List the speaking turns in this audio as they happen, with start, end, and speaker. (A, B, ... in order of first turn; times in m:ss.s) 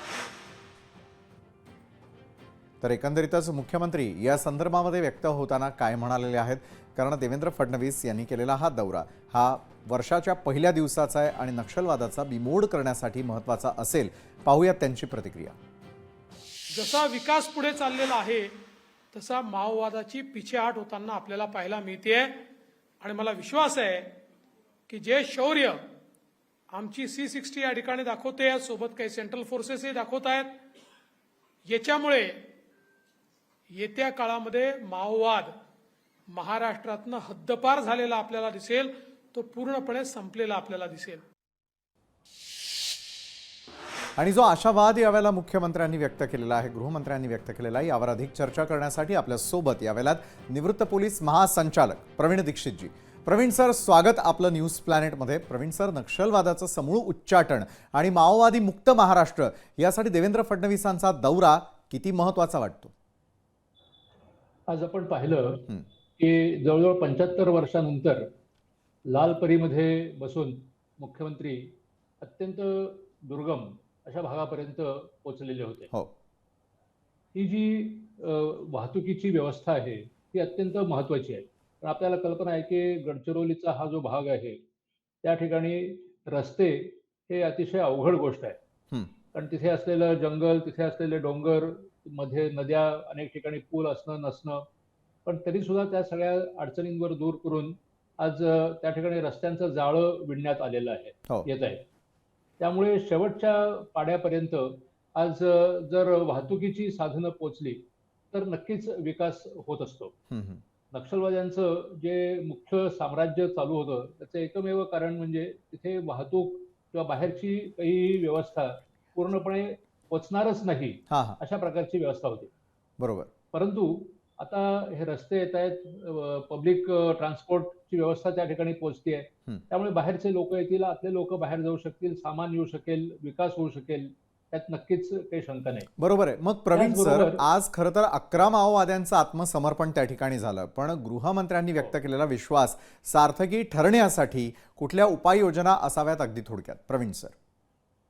0:02.8-0:15.6 A
0:16.7-0:18.6 B
0:19.1-0:22.4 B
0:23.0-0:24.1 B
0:24.9-0:25.8 B
0:26.7-0:30.6 B
0:31.7-0:32.4 B
0:33.7-0:35.5 B
0:36.3-0:41.2 B
0:44.2-1:02.9 A
1:04.7-1:08.3 C
1:09.1-1:15.9 C
1:17.3-1:24.6 C
1:25.2-1:28.6 C
1:29.3-1:34.6 C
1:35.3-1:41.8 C
1:42.6-1:50.1 C
1:50.3-1:50.6 A
1:50.9-2:02.5 C
2:01.1-2:01.4 A
2:03.0-2:03.3 A
2:03.5-2:15.9 C
2:16.0-2:27.4 A
2:16.7-2:17.4 C